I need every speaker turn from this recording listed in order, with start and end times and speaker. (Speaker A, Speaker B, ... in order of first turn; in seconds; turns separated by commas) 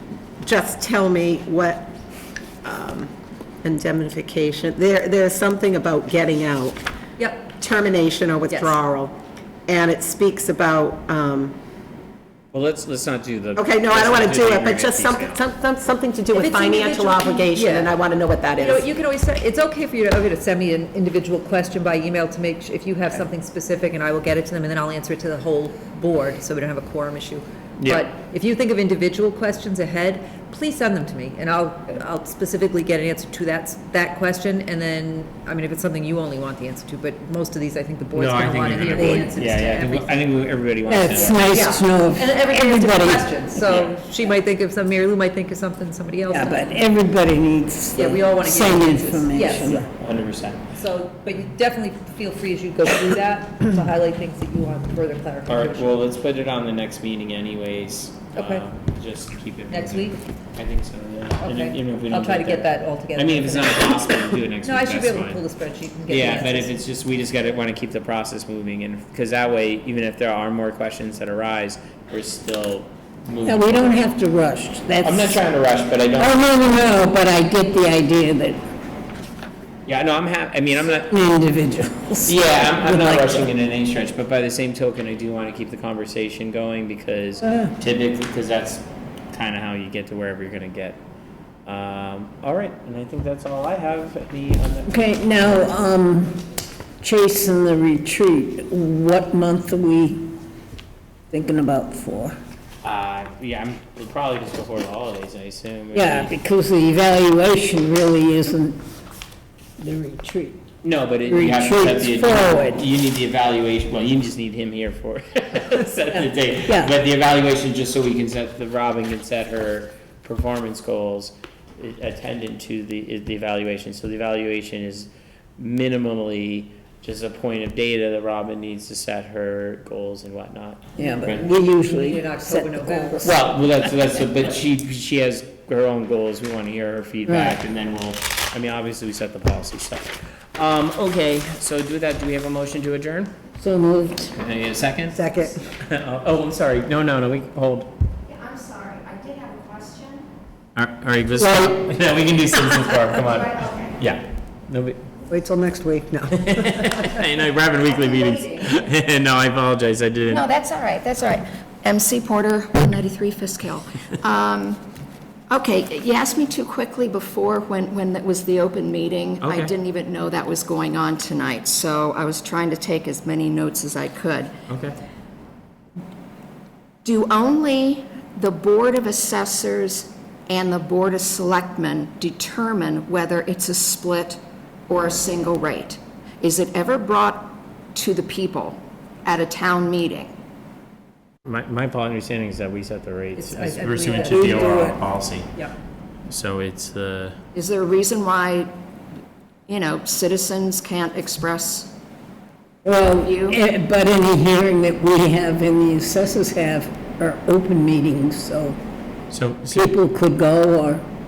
Speaker A: 0.4-1.9, Speaker A: 2.6-3.1, Speaker A: 3.6-6.8, Speaker B: 7.2-7.5, Speaker A: 7.6-9.2, Speaker B: 8.5-8.8, Speaker A: 9.7-11.6, Speaker C: 12.5-15.4, Speaker A: 13.6-18.8, Speaker B: 16.3-17.9, Speaker B: 18.6-40.2, Speaker C: 27.8-28.1, Speaker C: 38.1-41.5, Speaker D: 38.9-39.3, Speaker D: 40.9-43.5, Speaker B: 41.4-46.8, Speaker C: 43.7-43.9, Speaker D: 46.3-49.9, Speaker B: 47.9-49.9, Speaker C: 49.9-50.7, Speaker B: 50.8-56.0, Speaker C: 55.5-65.4, Speaker B: 58.3-58.6, Speaker B: 59.7-60.2, Speaker B: 61.4-66.7, Speaker C: 66.1-74.1, Speaker D: 73.5-75.4, Speaker C: 75.0-76.4, Speaker D: 76.2-78.6, Speaker C: 79.9-81.1, Speaker D: 81.1-83.5, Speaker C: 82.2-91.0, Speaker C: 91.7-95.7, Speaker D: 94.9-96.4, Speaker D: 97.0-100.3, Speaker D: 101.3-102.4, Speaker C: 102.8-106.3, Speaker D: 105.9-108.8, Speaker D: 109.8-110.6, Speaker C: 110.8-131.5, Speaker D: 111.3-112.8, Speaker D: 116.2-116.9, Speaker D: 131.0-133.4, Speaker B: 131.7-133.4, Speaker C: 133.2-143.3, Speaker D: 137.3-137.6, Speaker D: 143.6-144.3, Speaker C: 144.3-147.9, Speaker E: 148.3-150.2, Speaker C: 150.8-155.1, Speaker D: 151.4-151.8, Speaker E: 153.6-153.8, Speaker B: 155.3-156.4, Speaker C: 156.3-160.5, Speaker E: 157.9-158.7, Speaker E: 160.3-164.8, Speaker E: 165.5-174.5, Speaker C: 169.4-169.7, Speaker C: 174.7-175.0, Speaker E: 177.0-190.3, Speaker C: 191.4-195.5, Speaker B: 193.3-194.9, Speaker D: 194.3-195.0, Speaker C: 196.3-197.4, Speaker E: 197.5-198.7, Speaker E: 199.7-201.9, Speaker D: 202.8-208.8, Speaker E: 203.2-203.6, Speaker C: 209.3-209.9, Speaker D: 209.7-211.0